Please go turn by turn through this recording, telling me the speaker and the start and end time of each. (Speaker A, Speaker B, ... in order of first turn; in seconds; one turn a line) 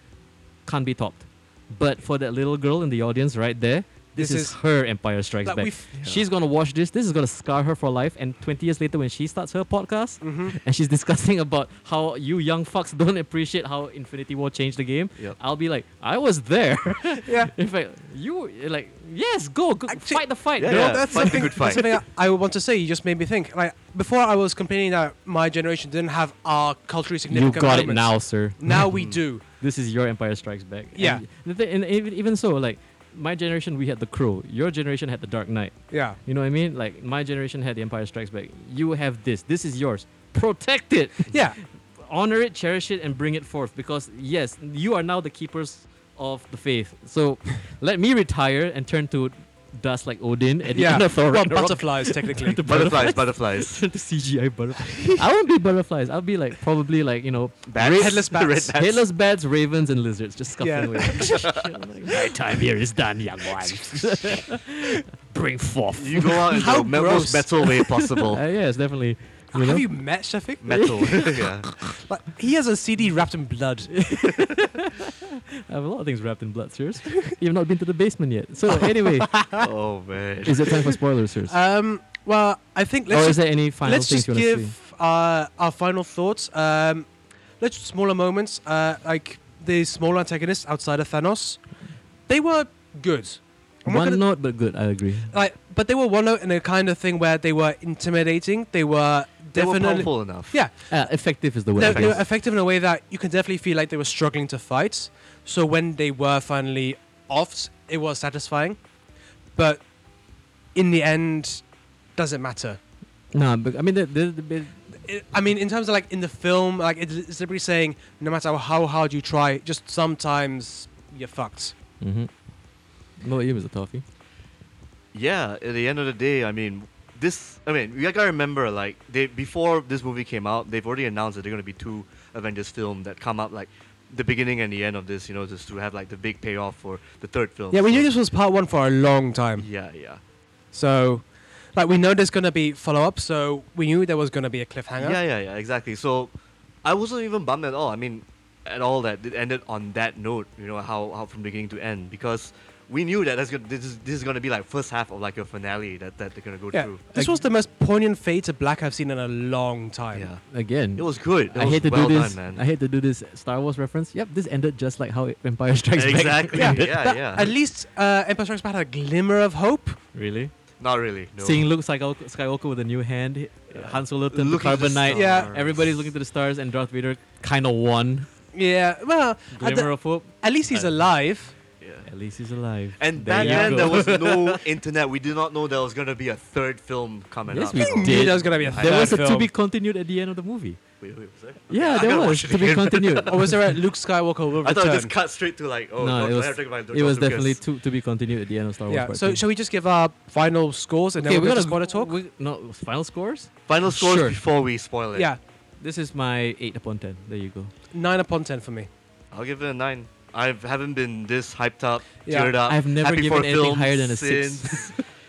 Speaker A: 0.7-21.7
Speaker B: 4.2-4.6
Speaker B: 5.4-5.8
Speaker C: 5.9-6.2
Speaker B: 10.2-10.6
Speaker B: 17.2-17.5
Speaker B: 19.9-29.4
Speaker C: 20.6-21.9
Speaker A: 27.3-28.8
Speaker C: 28.9-29.2
Speaker A: 29.6-66.8
Speaker B: 31.0-31.2
Speaker B: 35.9-36.2
Speaker B: 41.3-41.6
Speaker B: 50.7-52.6
Speaker C: 52.7-53.8
Speaker B: 54.9-55.2
Speaker C: 57.7-59.0
Speaker B: 58.0-58.7
Speaker B: 60.6-61.5
Speaker C: 61.2-61.7
Speaker C: 66.0-68.4
Speaker B: 66.5-67.7
Speaker A: 67.6-69.9
Speaker B: 69.5-70.8
Speaker C: 70.6-71.7
Speaker A: 70.7-72.0
Speaker B: 72.1-74.1
Speaker A: 73.9-79.4
Speaker B: 78.8-79.6
Speaker C: 79.6-80.8
Speaker A: 80.5-81.6
Speaker B: 81.5-87.1
Speaker A: 83.1-84.7
Speaker B: 87.6-91.6
Speaker B: 92.3-94.2
Speaker A: 93.9-95.3
Speaker B: 95.3-100.9
Speaker C: 99.5-100.6
Speaker A: 100.9-102.2
Speaker B: 101.8-108.8
Speaker C: 101.8-102.2
Speaker B: 109.6-109.8
Speaker B: 110.8-111.6
Speaker B: 112.2-112.8
Speaker A: 113.3-114.9
Speaker B: 115.0-121.8
Speaker A: 122.0-122.3
Speaker A: 123.2-124.0
Speaker C: 125.1-138.1
Speaker B: 137.7-139.7
Speaker C: 139.6-140.2
Speaker B: 140.7-145.2
Speaker C: 145.0-146.3
Speaker C: 146.8-157.0
Speaker B: 156.7-160.3
Speaker C: 160.1-160.4
Speaker A: 160.5-167.0
Speaker C: 161.0-162.6
Speaker C: 165.9-167.5
Speaker B: 166.6-170.0
Speaker A: 170.1-170.5
Speaker C: 170.8-171.7
Speaker A: 171.4-178.3
Speaker C: 173.7-176.1
Speaker B: 175.1-175.5
Speaker B: 178.5-181.5
Speaker A: 179.5-180.3
Speaker C: 180.7-181.0
Speaker C: 181.8-182.1
Speaker A: 182.0-184.6
Speaker C: 183.0-189.2
Speaker B: 183.4-184.0
Speaker A: 187.5-190.8
Speaker B: 187.8-189.5
Speaker C: 191.0-193.6
Speaker A: 191.7-193.6
Speaker B: 193.3-195.1
Speaker C: 194.6-197.6
Speaker A: 196.0-199.4
Speaker B: 198.9-202.2
Speaker A: 201.2-204.4
Speaker C: 203.7-205.3
Speaker A: 205.8-207.7
Speaker B: 207.9-208.9
Speaker C: 209.3-215.0
Speaker B: 212.3-212.6
Speaker A: 212.7-215.0